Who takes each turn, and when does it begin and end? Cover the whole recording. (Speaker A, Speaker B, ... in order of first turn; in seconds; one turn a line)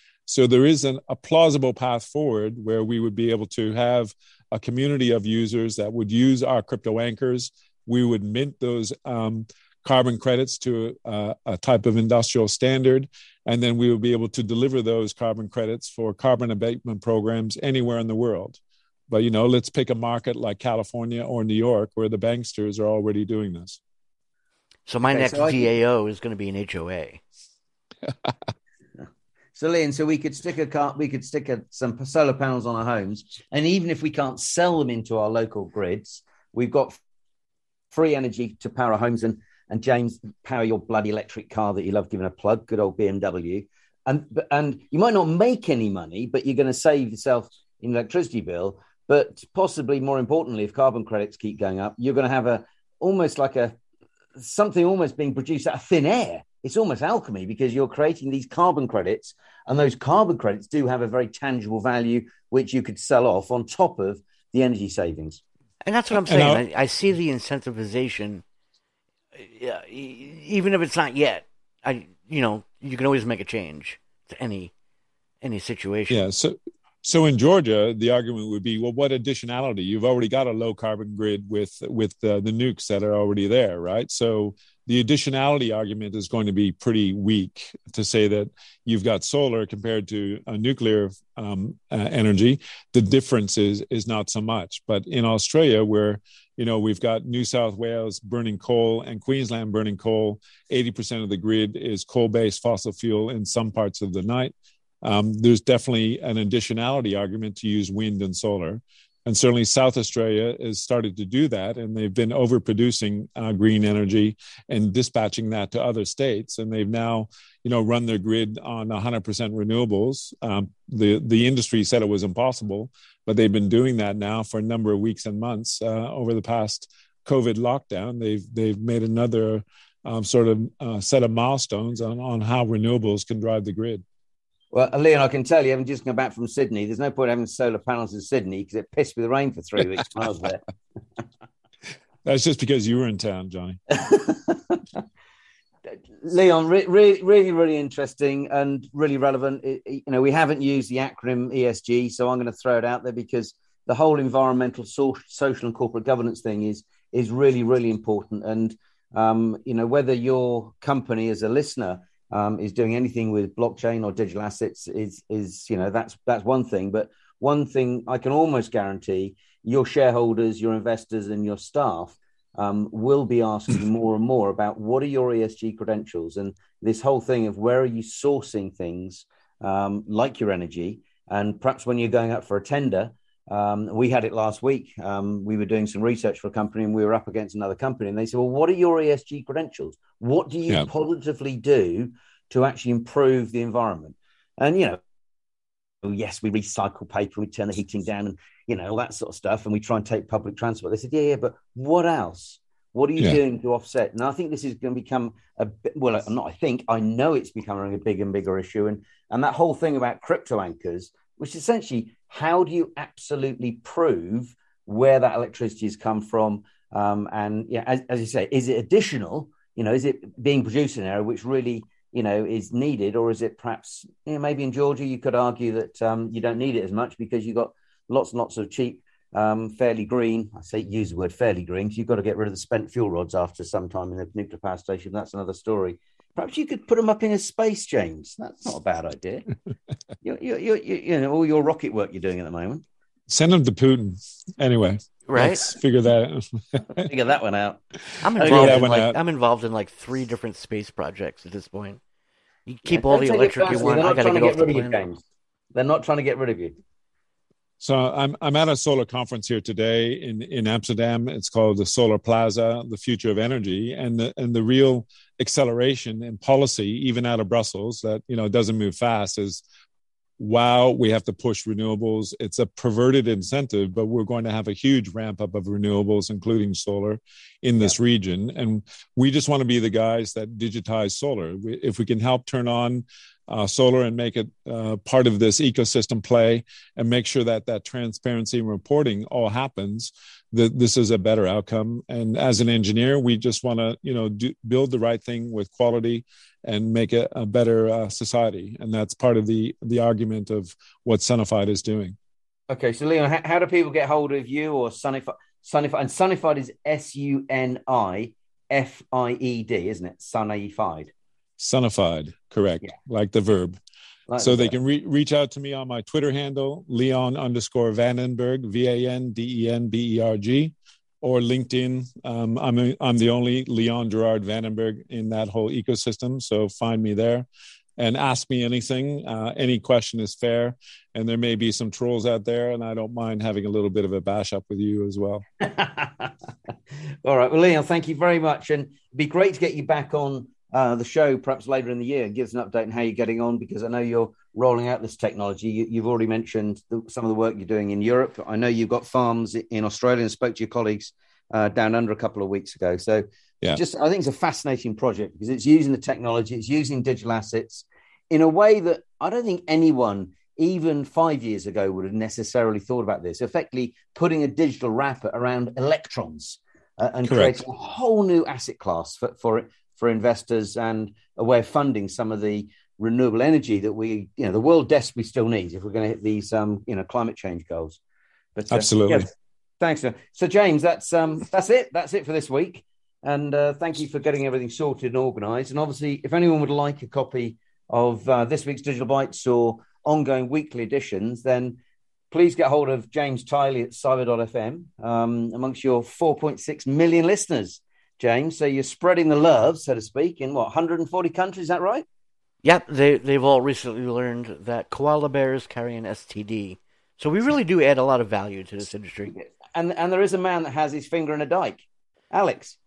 Speaker A: 0.3-23.8
Speaker B: 24.9-27.2
Speaker C: 25.1-25.7
Speaker C: 29.6-37.0
Speaker C: 37.9-53.8
Speaker C: 54.4-65.4
Speaker B: 65.8-68.4
Speaker A: 66.2-66.6
Speaker B: 69.4-74.7
Speaker B: 75.4-76.2
Speaker A: 76.1-134.0
Speaker C: 134.7-140.7
Speaker A: 142.2-144.0
Speaker C: 144.0-145.0
Speaker C: 146.2-195.0
Speaker C: 196.0-239.5
Speaker C: 240.2-242.8
Speaker A: 243.3-247.1
Speaker B: 245.3-245.7
Speaker C: 247.0-247.8
Speaker B: 248.2-252.0
Speaker C: 248.4-248.8
Speaker A: 248.4-249.2
Speaker B: 252.7-255.1
Speaker C: 252.9-255.2
Speaker C: 255.7-256.8
Speaker A: 257.8-269.6
Speaker A: 270.4-302.2
Speaker C: 302.7-311.1
Speaker A: 311.6-313.8
Speaker C: 314.3-314.8
Speaker A: 314.4-327.5
Speaker A: 328.0-335.4
Speaker C: 335.6-336.4
Speaker C: 337.2-378.0
Speaker A: 367.3-367.6
Speaker C: 378.6-379.3
Speaker A: 378.7-379.3
Speaker C: 379.8-391.8
Speaker C: 392.3-402.1
Speaker B: 402.6-409.4
Speaker C: 409.3-412.8